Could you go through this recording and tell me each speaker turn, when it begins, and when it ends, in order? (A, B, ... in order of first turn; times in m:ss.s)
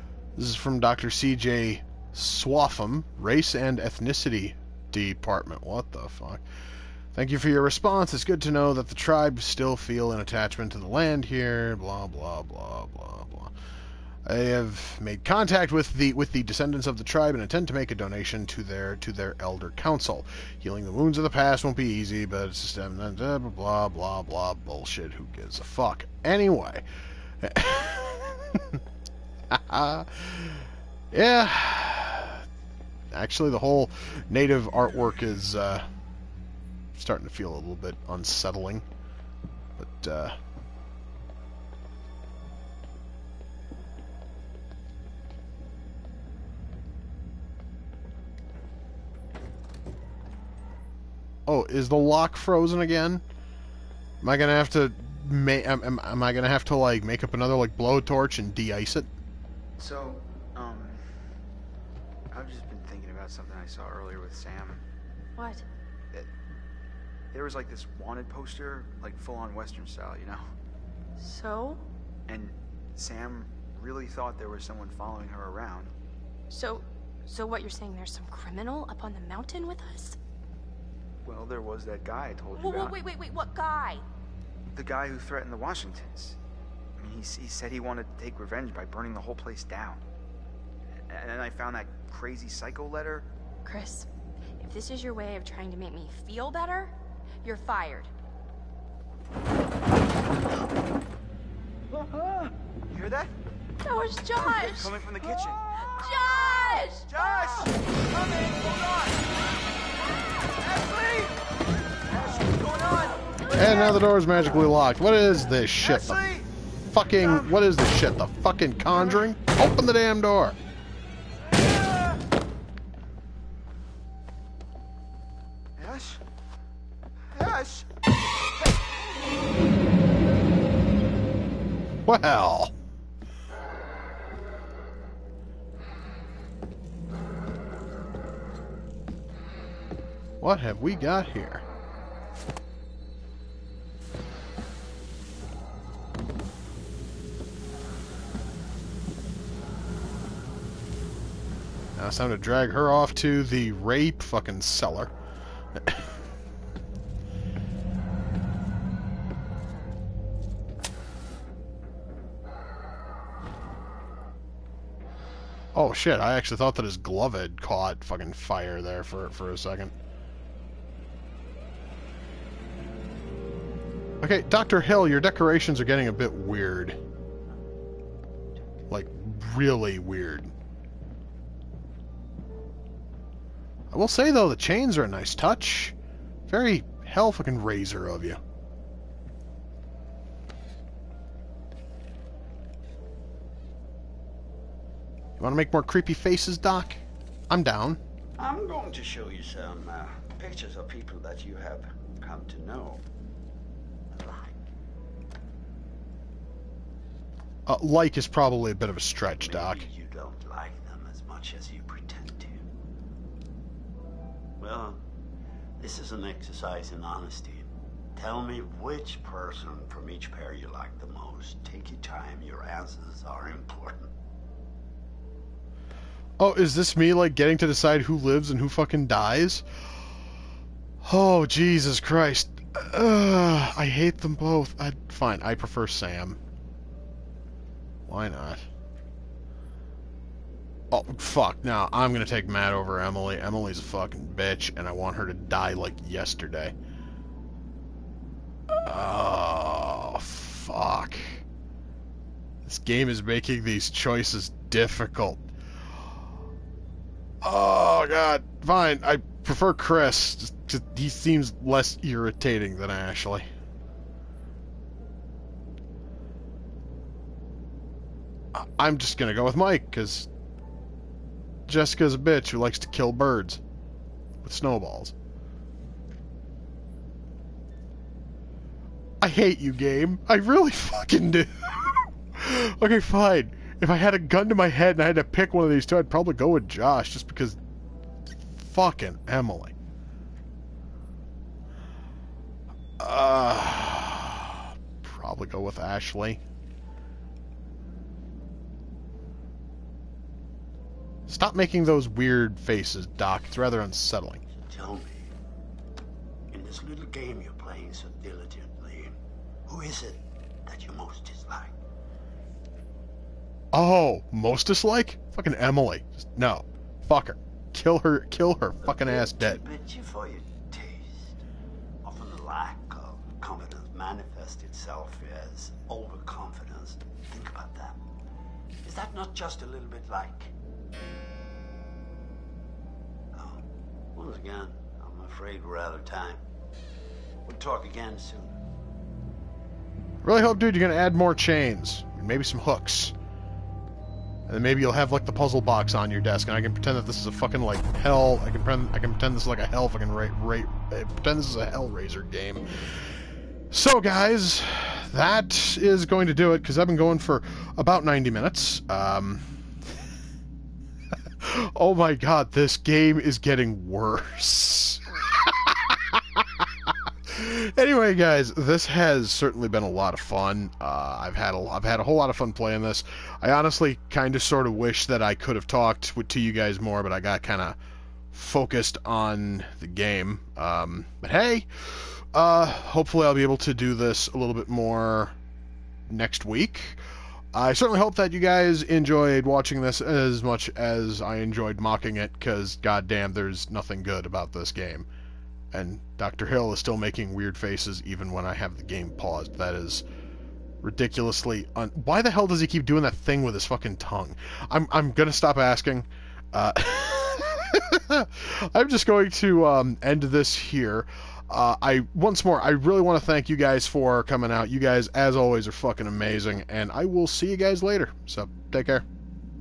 0:00.4-0:06.4 A
0:07.1-0:13.5 A
0:14.2-0:26.8 A
0:27.4-0:28.8 A
0:29.5-0:32.4 A
0:33.1-0:35.8 A
0:36.9-0:38.8 A
0:39.8-0:40.4 A
0:51.4-0:53.2 A
0:54.2-0:59.1 A
0:59.8-1:01.2 B
1:02.3-1:04.8 B
1:05.4-1:05.6 C
1:07.3-1:10.4 B
1:11.2-1:11.8 C
1:12.3-1:15.9 B
1:16.5-1:20.2 C
1:21.2-1:23.0 B
1:22.5-1:24.0 C
1:24.7-1:26.4 B
1:27.0-1:30.0 B
1:30.9-1:33.3 B
1:33.6-1:38.1 C
1:42.0-1:43.3 B
1:43.8-1:45.0 C
1:44.3-1:45.7 B
1:45.8-1:47.2 C
1:47.1-1:49.4 B
1:50.5-1:53.3 B
1:53.6-1:56.2 A
1:55.8-1:56.5 B
1:56.9-2:00.6 A
1:57.0-1:57.6 B
2:01.6-2:02.2 B
2:05.8-2:06.2 B
2:07.3-2:07.9 B
2:12.0-2:12.7 A
2:20.4-2:21.6 A
2:32.0-2:35.1 A
2:35.8-2:36.0 A
2:45.7-2:49.9 A
2:54.2-2:57.0 A
2:58.9-3:00.5 A
3:03.9-3:05.9 A
3:06.5-3:08.4 A
3:15.4-3:18.0 A
3:18.4-3:23.0 D
3:24.1-3:24.6 D
3:27.7-3:29.9 A
3:29.2-3:32.7 D
3:34.6-3:35.0 D
3:35.8-3:44.1 D
3:46.4-3:49.6 A
3:51.0-3:56.4 A
3:58.1-3:58.6 A
4:00.9-4:06.7 A
4:08.8-4:11.4 A
4:12.6-4:15.4 A
4:17.4-4:23.5 A
4:28.5-4:30.3 A
4:31.7-4:33.6 A
4:34.4-4:35.1 A
4:39.2-4:47.6 A
4:48.5-4:49.7 A
4:53.0-4:56.4 A
5:01.3-5:04.4 A
5:04.6-5:05.3 D
5:06.5-5:09.1 D
5:09.6-5:11.7 D
5:13.7-5:19.6 A
5:18.8-5:21.4 D
5:22.0-5:28.0 D
5:28.8-5:30.5 D
5:33.3-5:36.4 D
5:37.4-5:38.6 D
5:40.2-5:43.1 A
5:44.5-5:52.6 A
5:53.7-5:59.5 A
6:01.4-6:06.4 A
6:07.3-6:17.8 A
6:18.3-6:25.3 A
6:26.1-6:27.0 A
6:27.5-6:35.0 A
6:35.7-6:40.0 A
6:40.8-6:59.0 A